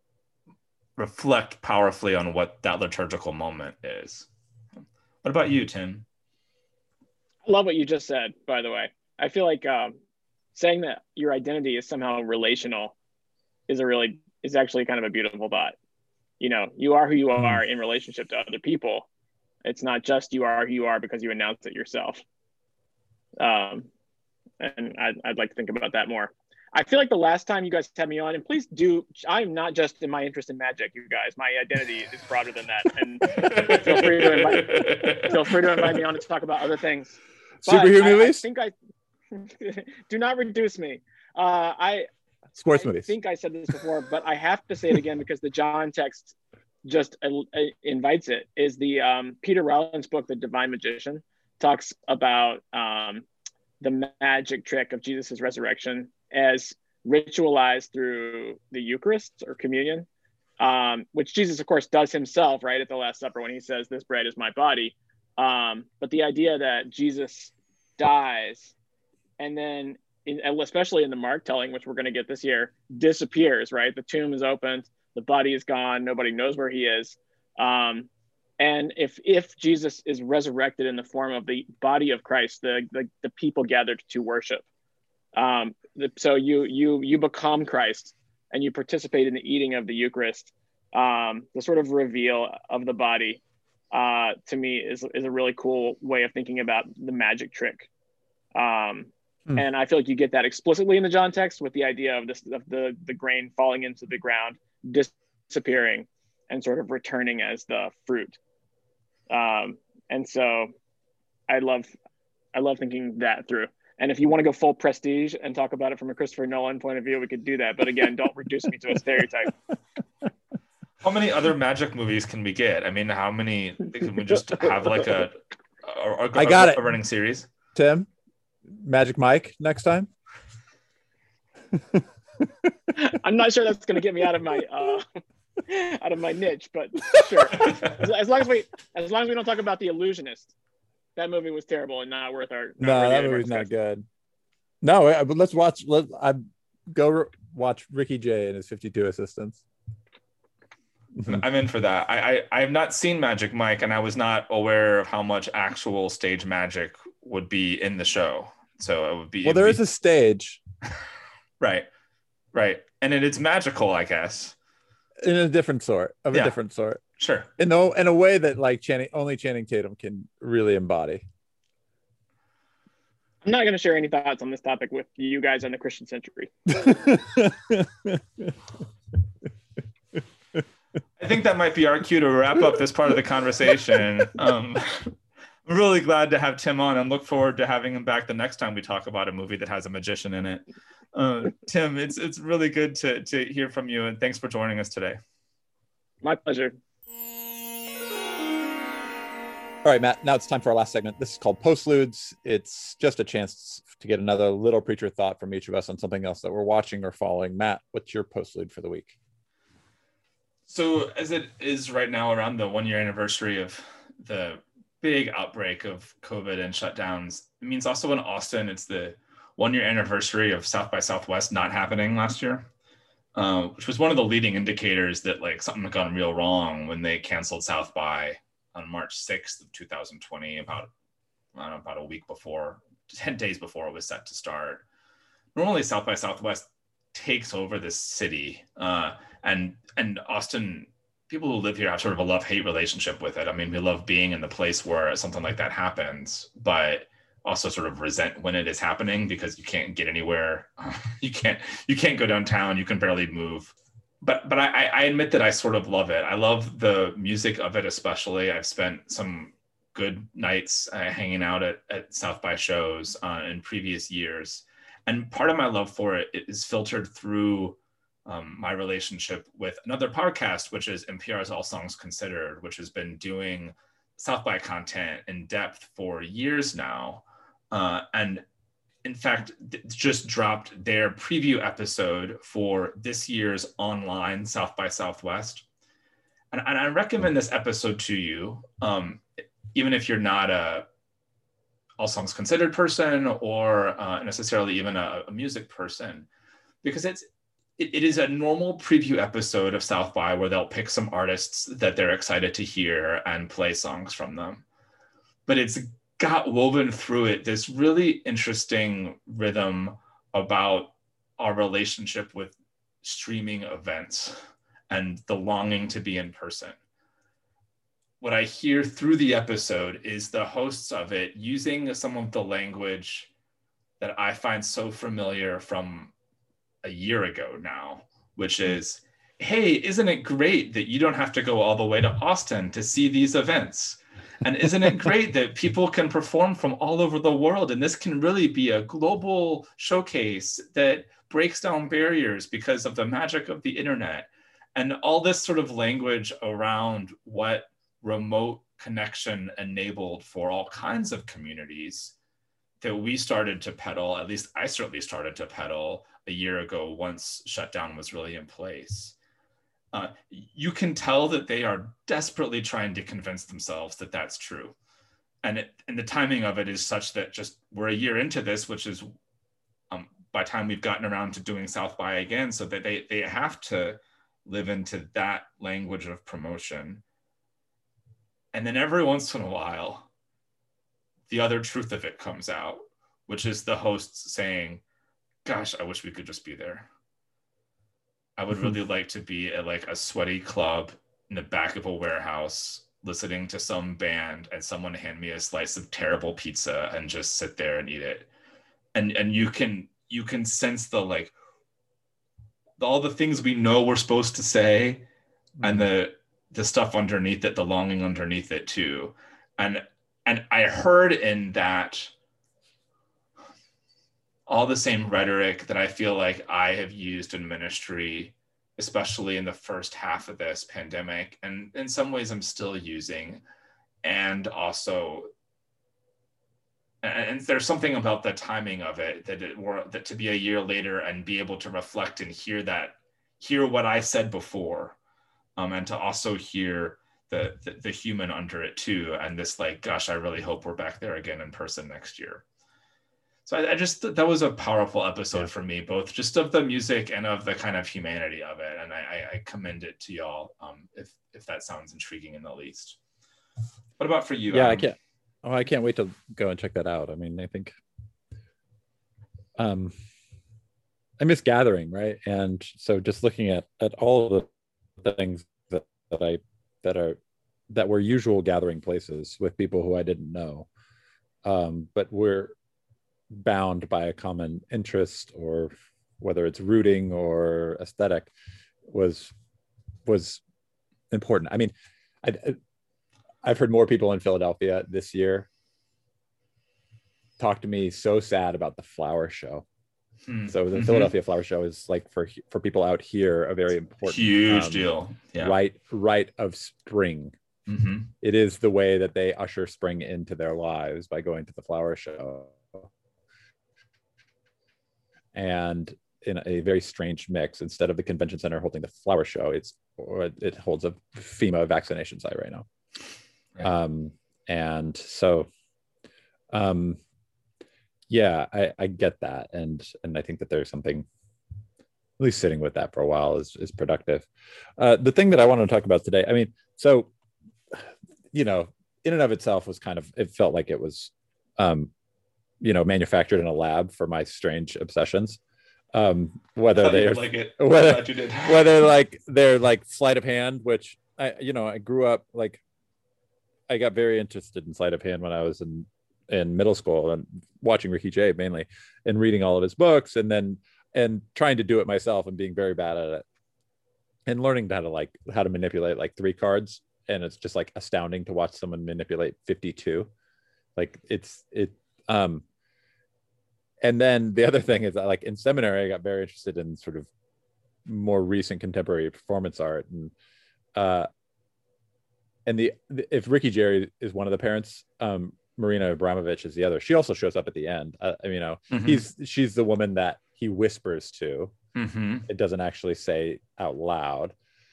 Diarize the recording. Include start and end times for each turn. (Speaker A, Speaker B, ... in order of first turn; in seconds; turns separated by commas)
Speaker A: 1.0-4.3, Speaker A: 5.2-6.0, Speaker B: 7.4-9.9, Speaker B: 10.5-12.9, Speaker B: 13.7-15.8, Speaker B: 16.4-19.1, Speaker C: 17.4-17.6, Speaker B: 19.6-22.2, Speaker B: 23.4-23.9, Speaker B: 24.6-38.7, Speaker A: 33.3-36.0, Speaker C: 37.6-38.4, Speaker B: 39.3-42.1, Speaker C: 42.5-43.1, Speaker B: 42.7-53.2, Speaker B: 53.8-60.1, Speaker B: 60.6-68.7, Speaker B: 69.4-78.1, Speaker B: 78.6-84.6, Speaker B: 85.3-97.9, Speaker B: 98.5-108.4, Speaker B: 109.3-110.7, Speaker B: 111.5-111.9, Speaker B: 112.5-119.5, Speaker A: 121.0-127.5, Speaker C: 126.3-126.9, Speaker C: 127.7-128.1, Speaker C: 128.7-130.1, Speaker C: 131.7-132.0, Speaker B: 132.9-135.1, Speaker B: 135.6-140.5, Speaker C: 137.2-137.6, Speaker B: 141.2-143.7, Speaker C: 142.8-144.1, Speaker C: 144.8-149.6, Speaker C: 151.2-151.4, Speaker A: 151.2-159.8, Speaker C: 159.4-160.6, Speaker A: 161.6-161.9, Speaker A: 162.5-164.5, Speaker C: 165.2-167.0, Speaker A: 167.2-167.5, Speaker C: 167.6-171.2, Speaker B: 173.4-177.0, Speaker C: 176.8-178.5, Speaker A: 181.2-195.2, Speaker B: 196.2-196.8, Speaker C: 199.8-209.2, Speaker A: 210.7-222.7, Speaker A: 223.3-230.9, Speaker A: 231.5-234.8, Speaker A: 235.5-278.4, Speaker A: 279.0-285.6, Speaker A: 286.5-290.9, Speaker A: 292.0-296.3, Speaker A: 296.8-297.2, Speaker A: 297.8-304.6, Speaker A: 305.5-316.8, Speaker A: 318.2-323.3, Speaker A: 324.0-326.1, Speaker A: 326.8-352.1, Speaker A: 352.8-359.1, Speaker A: 359.9-364.8, Speaker A: 365.4-369.1, Speaker A: 369.9-377.0, Speaker A: 378.5-380.1, Speaker A: 381.3-384.8, Speaker A: 385.4-386.9, Speaker A: 388.4-398.3, Speaker A: 398.9-401.3, Speaker A: 402.8-405.1, Speaker A: 405.6-412.1, Speaker A: 414.5-423.4, Speaker A: 424.0-425.3, Speaker A: 427.0-435.0, Speaker A: 435.6-442.4, Speaker A: 443.4-453.0, Speaker A: 454.0-454.9, Speaker C: 454.5-457.7, Speaker C: 459.6-459.9, Speaker C: 461.2-464.5, Speaker C: 465.0-467.2, Speaker C: 467.7-470.7, Speaker C: 471.4-472.5, Speaker C: 473.3-478.3, Speaker C: 478.9-479.3, Speaker C: 480.1-480.4, Speaker C: 481.1-482.6, Speaker C: 483.4-485.5, Speaker C: 487.4-489.6, Speaker A: 490.2-491.1, Speaker C: 490.5-497.3, Speaker A: 494.1-495.6, Speaker A: 497.7-498.1, Speaker C: 498.2-502.9, Speaker C: 505.3-512.6, Speaker C: 513.6-515.5, Speaker C: 516.5-517.0, Speaker C: 518.1-521.1, Speaker C: 522.2-527.1, Speaker C: 527.7-531.9, Speaker C: 532.6-535.4, Speaker C: 535.9-542.6, Speaker A: 536.8-538.8, Speaker C: 543.7-553.2, Speaker C: 554.3-560.1, Speaker C: 560.8-562.4, Speaker C: 563.8-567.1, Speaker C: 567.9-570.1, Speaker C: 570.7-571.1, Speaker C: 572.5-581.5, Speaker A: 578.7-579.0, Speaker A: 581.7-582.3, Speaker C: 582.3-584.3